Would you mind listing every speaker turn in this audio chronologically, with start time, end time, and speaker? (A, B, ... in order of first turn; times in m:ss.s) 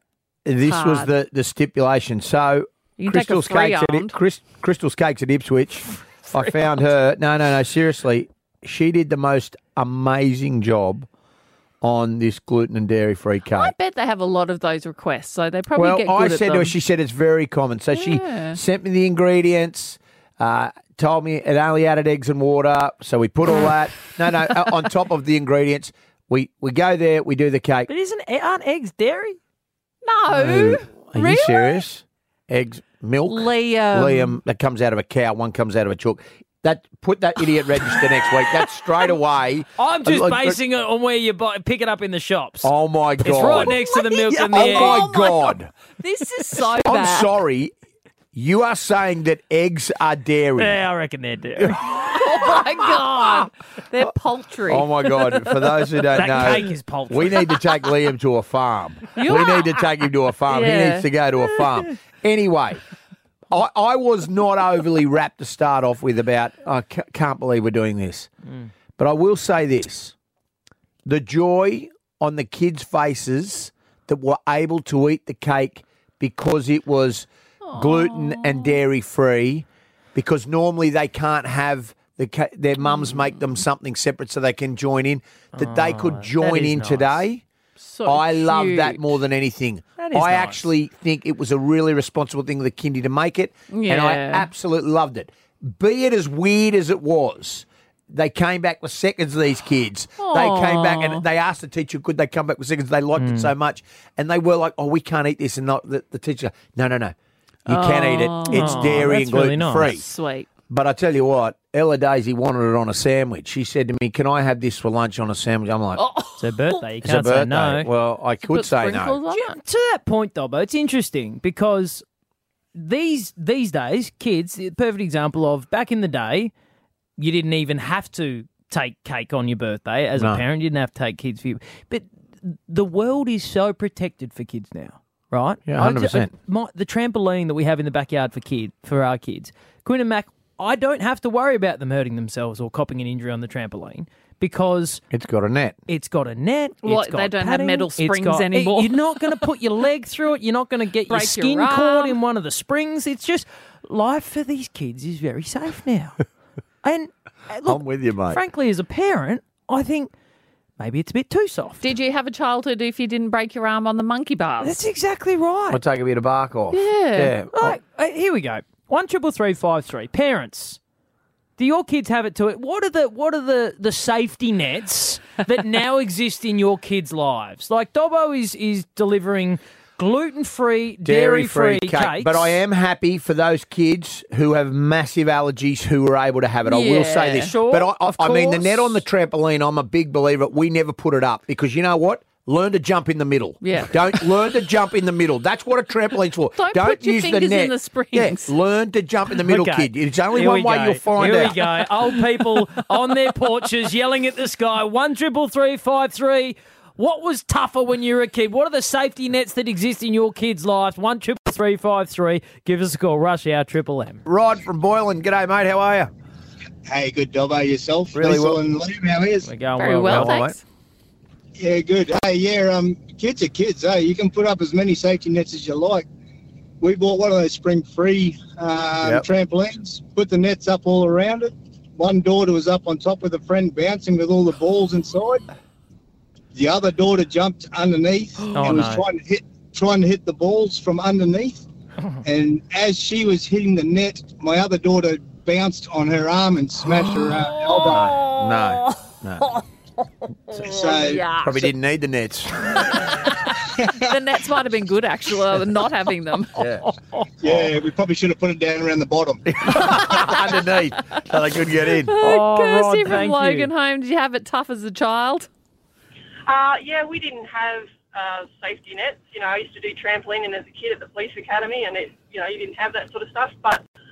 0:00.4-0:11.1 A
0:00.6-0:01.1 B
0:03.0-0:04.1 B
0:11.8-0:13.7 A
0:13.5-0:16.7 B
0:15.7-0:27.9 A
0:17.9-0:18.6 B
0:27.9-0:29.4 C
0:30.0-0:31.8 B
0:30.3-0:40.6 A
0:33.2-0:34.4 B
0:39.8-0:45.0 C
0:42.6-0:43.7 A
0:43.4-0:47.3 B
0:44.3-0:45.7 A
0:46.6-0:47.7 A
0:48.3-0:50.8 A
0:50.6-0:52.2 C
0:52.0-0:54.9 B
0:53.2-0:53.5 C
0:54.7-1:02.8 A
0:56.1-0:57.7 C
0:59.2-0:59.8 B
1:00.5-1:01.0 B
1:03.5-1:08.3 A
1:09.0-1:10.1 A
1:11.0-1:27.4 A
1:17.6-1:18.8 B
1:22.8-1:23.4 B
1:25.6-1:27.2 C
1:27.8-1:29.2 B
1:28.0-1:47.1 A
1:30.0-1:30.7 C
1:33.7-1:34.5 B
1:40.2-1:41.2 B
1:43.2-1:43.5 C
1:47.6-1:50.0 A
1:47.7-1:49.1 B
1:48.5-1:49.9 C
1:49.8-1:50.5 B
1:50.7-1:56.0 A
1:56.0-1:56.8 B
1:56.4-1:57.9 C
1:57.0-1:59.2 A
1:58.5-1:59.6 B
1:59.3-2:02.0 C
2:02.8-2:06.5 C
2:07.2-2:25.0 C
2:10.2-2:10.4 A
2:15.7-2:16.3 A
2:25.1-2:25.8 A
2:25.9-2:36.2 C
2:26.8-2:29.4 B
2:31.1-2:32.2 B
2:36.8-2:40.1 C
2:37.6-2:38.4 A
2:40.8-2:41.8 C
2:41.8-2:44.8 B
2:44.6-2:45.8 C
2:45.7-2:47.8 A
2:46.7-2:47.3 B
2:47.5-2:50.8 C
2:51.6-3:02.5 C
3:01.0-3:21.6 A
3:06.6-3:08.9 B
3:13.6-3:14.3 B
3:16.6-3:18.5 B
3:19.4-3:34.2 C
3:34.2-3:36.1 A
3:36.8-3:39.5 D
3:38.1-3:38.6 A
3:39.4-3:40.4 C
3:39.8-3:40.6 B
3:40.1-3:40.5 A
3:41.6-3:46.0 D
3:46.8-3:55.4 D
3:56.5-4:01.6 D
3:58.5-3:59.0 C
4:02.2-4:08.0 D
4:07.0-4:07.3 C
4:07.5-4:09.6 B
4:07.9-4:09.5 A
4:10.5-4:11.7 B
4:10.6-4:11.2 D
4:11.4-4:12.6 A
4:12.8-4:16.6 B
4:16.6-4:16.9 A
4:16.9-4:17.2 C
4:17.4-4:19.4 D
4:17.4-4:17.7 A
4:19.4-4:22.1 A
4:19.9-4:20.4 B
4:22.1-4:25.5 B
4:22.2-4:23.7 C
4:26.4-4:33.8 E